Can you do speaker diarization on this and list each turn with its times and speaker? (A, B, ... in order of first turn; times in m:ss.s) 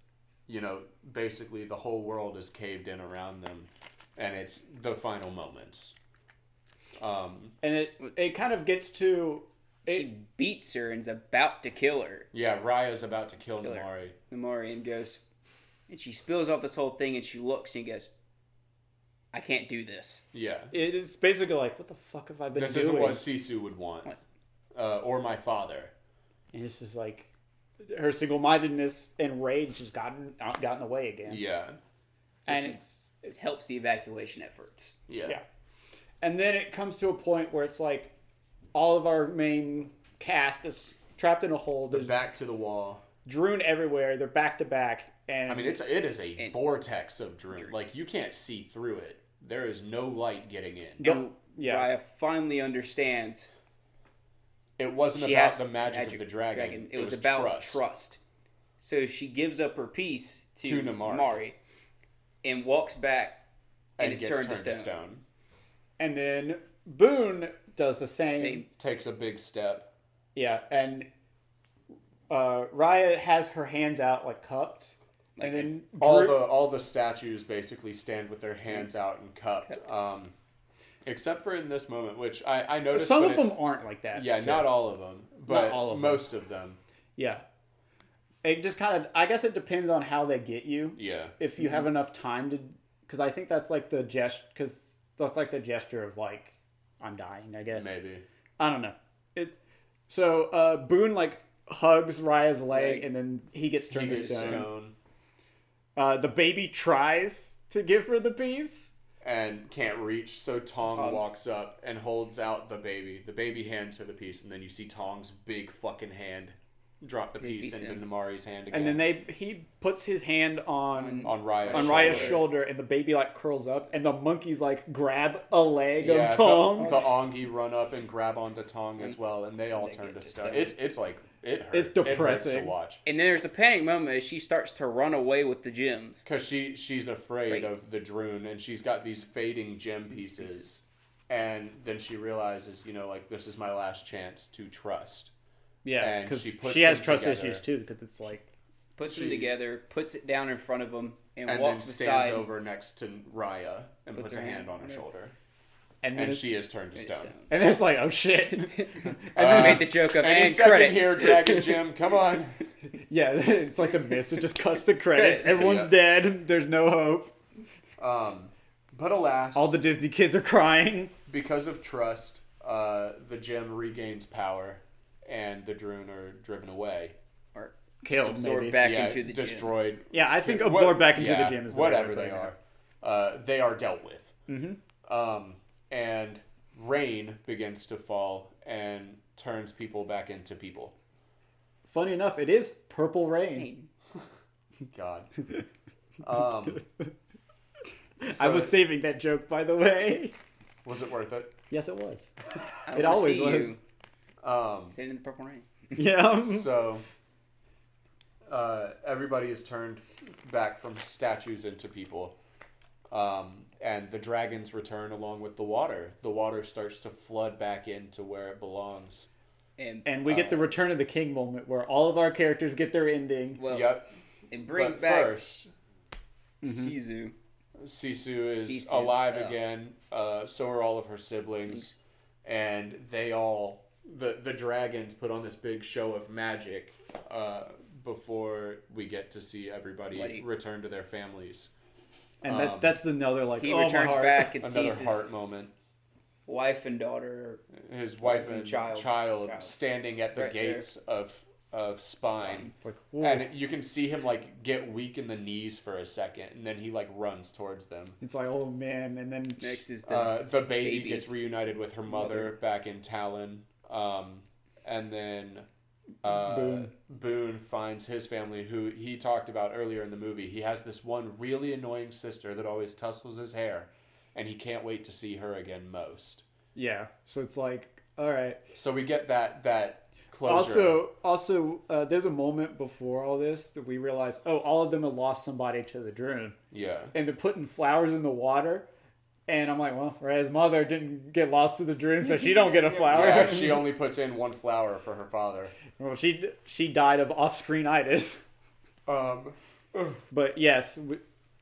0:00.5-0:06.0 A
0:07.0-0:07.5 A
0:07.6-0:10.1 B
0:09.9-0:12.3 C
0:12.3-0:14.1 A
0:13.6-0:15.2 C
0:15.9-0:18.1 C
0:19.3-0:20.2 C
0:20.3-0:20.7 A
0:20.7-0:23.2 B
0:22.5-0:24.1 A
0:24.7-0:25.9 A
0:26.5-0:27.3 B
0:27.9-0:31.4 B
0:31.3-0:31.8 A
0:32.4-0:33.4 B
0:32.5-0:32.8 C
0:33.3-0:35.0 C
0:35.1-0:35.4 A
0:36.2-0:38.1 B
0:38.7-0:42.2 B
0:41.9-0:43.0 A
0:43.2-0:45.8 B
0:45.5-0:51.1 A
0:51.0-0:51.9 B
0:51.0-0:53.5 C
0:54.8-0:57.8 A
0:55.1-0:58.2 C
0:58.8-1:01.6 C
1:00.6-1:01.4 A
1:02.4-1:03.4 C
1:04.0-1:04.9 C
1:04.0-1:05.2 A
1:06.0-1:08.6 B
1:08.4-1:08.7 C
1:08.7-1:09.9 A
1:10.3-1:11.1 B
1:12.3-1:16.5 B
1:15.4-1:15.7 C
1:16.0-1:20.3 A
1:21.0-1:23.6 A
1:22.9-1:24.7 B
1:24.1-1:26.8 A
1:25.4-1:26.2 B
1:27.2-1:27.4 B
1:28.4-1:37.9 B
1:31.0-1:31.3 A
1:37.7-1:38.2 A
1:38.6-1:39.6 B
1:40.1-1:44.7 B
1:42.7-1:43.0 C
1:43.9-1:44.9 A
1:44.2-1:44.6 C
1:46.0-1:48.9 B
1:49.2-1:59.0 A
1:51.0-1:51.2 C
1:57.4-1:58.0 C
1:58.7-2:07.0 B
2:00.9-2:02.5 C
2:01.2-2:02.5 A
2:06.0-2:13.0 A
2:09.7-2:10.7 C
2:11.7-2:12.7 B
2:13.0-2:16.2 C
2:16.2-2:25.3 A
2:25.8-2:28.5 B
2:26.0-2:27.6 A
2:29.0-2:32.5 C
2:29.0-2:29.5 A
2:31.4-2:35.3 A
2:34.1-2:35.0 C
2:36.0-2:36.5 B
2:36.1-2:37.3 A
2:36.9-2:37.5 C
2:37.5-2:39.8 B
2:39.3-2:41.8 C
2:39.3-2:42.6 A
2:43.1-2:47.3 B
2:45.1-2:45.7 C
2:45.4-2:45.9 A
2:48.0-2:49.7 A
2:49.5-2:51.1 B
2:51.3-2:57.2 A
2:57.5-2:59.7 C
2:58.0-2:58.8 B
2:58.8-3:04.4 A
3:00.1-3:02.5 B
3:04.5-3:04.8 B
3:05.0-3:10.9 A
3:11.9-3:13.7 B
3:13.5-3:13.9 C
3:14.9-3:15.3 A
3:16.2-3:16.8 A
3:18.2-3:20.3 B
3:18.3-3:18.8 A
3:20.8-3:21.5 A
3:21.7-3:22.3 B
3:22.8-3:23.8 C
3:22.9-3:23.8 B
3:24.4-3:25.0 A
3:24.9-3:25.9 C
3:26.0-3:26.8 B
3:26.2-3:27.0 A
3:28.5-3:32.4 A
3:33.1-3:39.3 A
3:39.8-3:40.1 C
3:40.0-3:43.6 B
3:43.6-3:43.9 C
3:43.6-3:44.1 A
3:44.5-3:45.6 C
3:44.7-3:45.7 A
3:46.6-3:47.3 C
3:46.6-3:46.9 B
3:47.8-4:01.7 A
3:48.6-3:49.5 C
4:00.1-4:00.4 C
4:02.4-4:03.0 A
4:02.4-4:04.5 B
4:03.6-4:05.3 C
4:04.5-4:05.7 A
4:06.5-4:07.6 C
4:07.8-4:12.7 A
4:08.2-4:09.7 C
4:10.3-4:10.8 C
4:12.4-4:12.7 C
4:12.8-4:13.5 B
4:13.2-4:18.2 A
4:18.2-4:19.8 B
4:19.6-4:21.3 C
4:20.0-4:25.7 A
4:22.1-4:22.5 B
4:26.2-4:36.4 A
4:26.2-4:26.9 B
4:36.7-4:38.6 B
4:38.7-4:41.0 A
4:40.4-4:46.6 B
4:46.7-4:47.1 A
4:47.1-4:48.9 B
4:49.5-4:53.9 B
4:52.2-4:53.7 C
4:53.1-4:55.7 A
4:56.0-4:58.4 B
4:59.0-5:00.2 A
5:00.3-5:01.2 B